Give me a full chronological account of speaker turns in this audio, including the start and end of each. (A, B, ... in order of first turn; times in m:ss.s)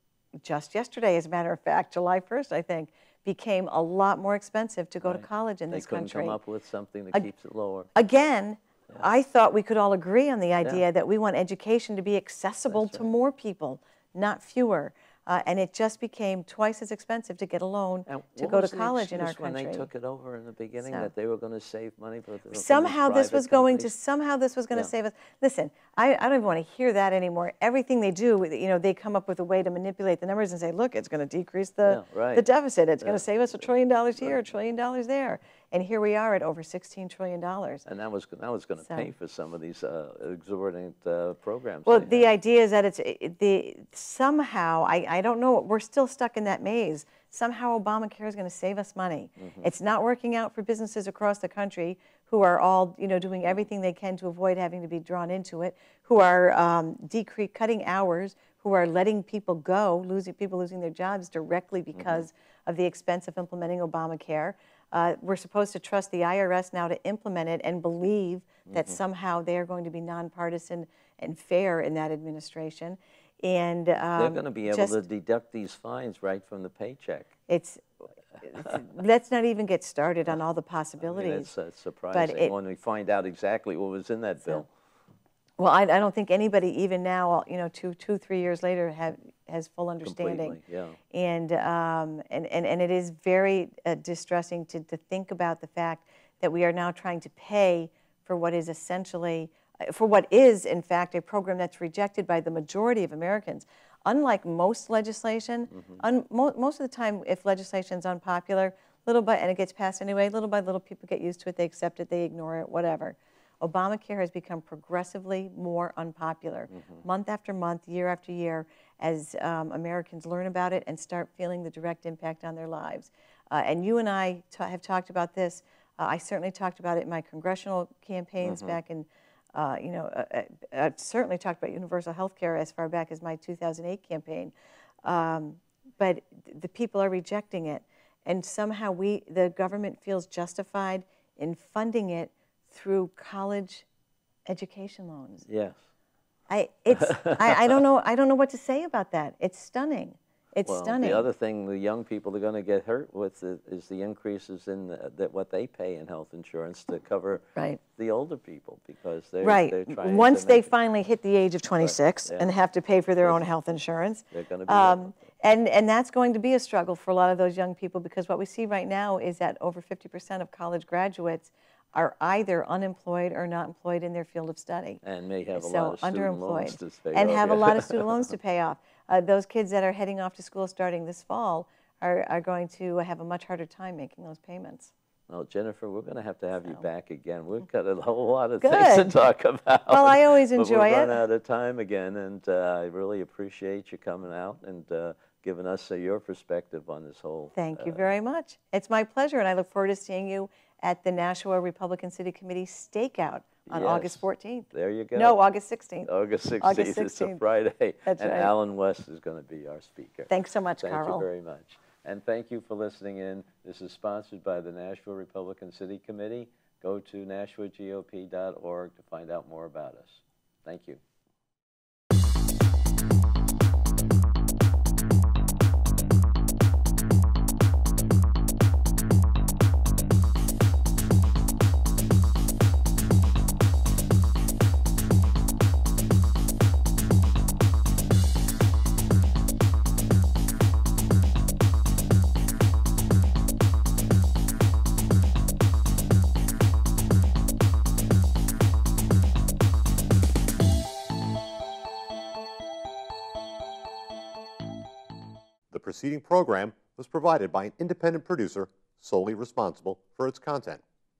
0:00.4-0:06.4 A
0:05.0-0:07.9 B
0:07.9-0:19.9 A
0:12.7-0:13.1 B
0:18.1-0:23.9 B
0:20.8-0:21.1 A
0:22.5-0:37.8 A
0:31.8-0:32.5 B
0:37.8-0:42.3 B
0:38.8-0:39.1 A
0:41.8-1:15.0 A
0:49.4-0:49.7 B
1:02.0-1:02.2 B
1:08.7-1:09.0 B
1:14.2-1:17.3 B
1:17.5-1:17.8 A
1:18.4-1:21.5 A
1:21.0-1:24.7 B
1:22.1-1:22.5 A
1:25.6-1:30.6 A
1:30.0-1:31.0 B
1:31.1-2:14.5 A
1:56.7-1:57.0 B
2:08.4-2:08.7 B
2:15.0-2:23.8 A
2:24.5-2:25.4 A
2:25.4-2:25.8 B
2:26.5-2:31.2 A
2:26.9-2:27.8 B
2:30.7-2:37.4 B
2:37.5-2:37.8 A
2:37.9-2:40.7 B
2:39.4-2:55.0 A
2:41.8-2:42.5 B
2:44.3-2:45.2 B
2:55.0-2:58.3 B
2:55.5-3:04.9 A
3:05.3-3:18.1 B
3:08.6-3:09.2 A
3:09.9-3:11.2 A
3:17.5-3:26.1 A
3:23.7-3:25.4 B
3:26.0-3:30.3 B
3:26.6-3:27.4 A
3:28.0-3:28.5 A
3:30.3-3:31.2 A
3:30.8-3:41.0 B
4:15.7-4:20.8 C